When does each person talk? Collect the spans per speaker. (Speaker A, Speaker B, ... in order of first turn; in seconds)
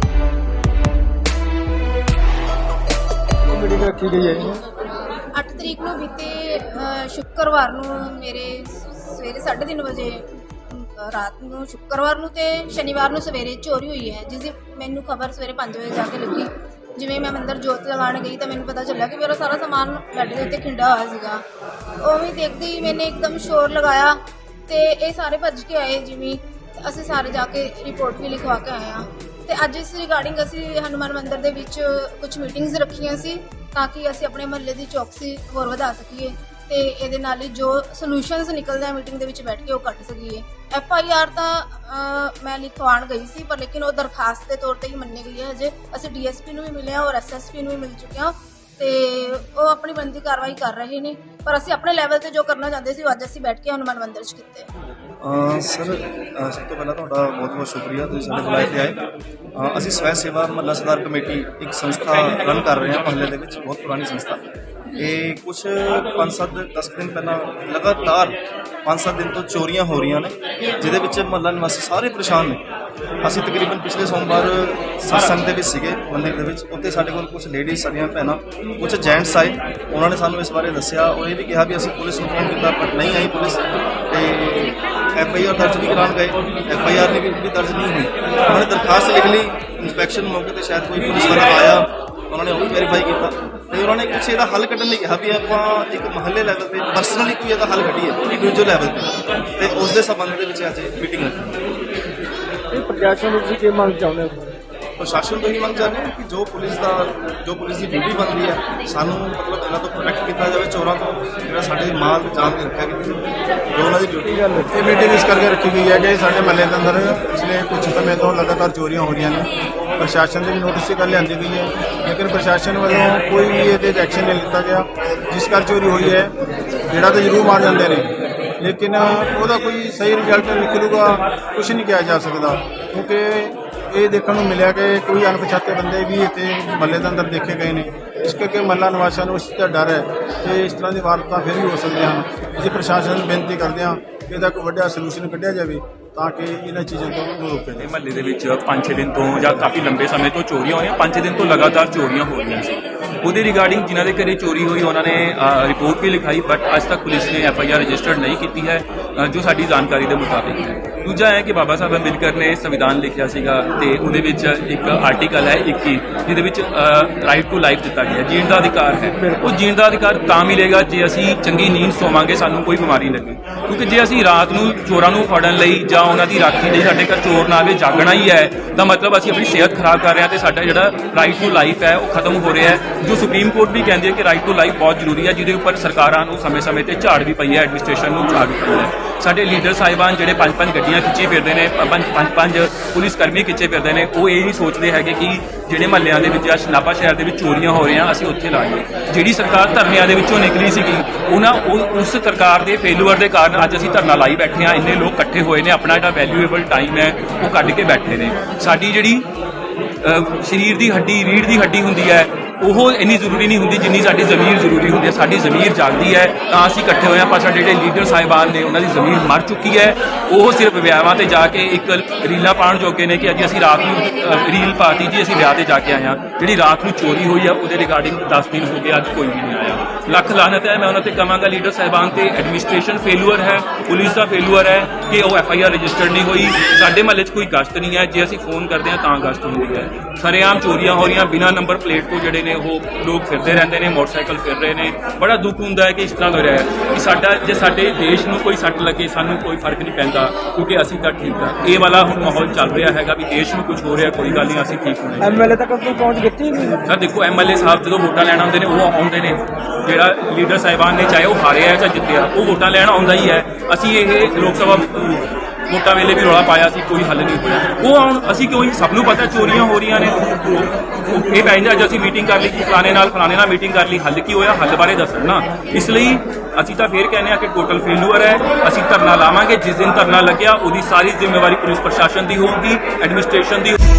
Speaker A: 3.5-4.6, 102.7-104.5, 114.2-114.7, 169.1-169.6, 255.2-256.8
Speaker B: 5.3-21.4, 22.0-54.7
Speaker C: 55.2-59.0, 59.5-64.4, 65.0-72.6, 73.2-101.6, 105.0-114.3
Speaker D: 114.7-126.3, 126.9-147.9
Speaker E: 147.8-209.3, 210.0-255.5, 256.9-283.8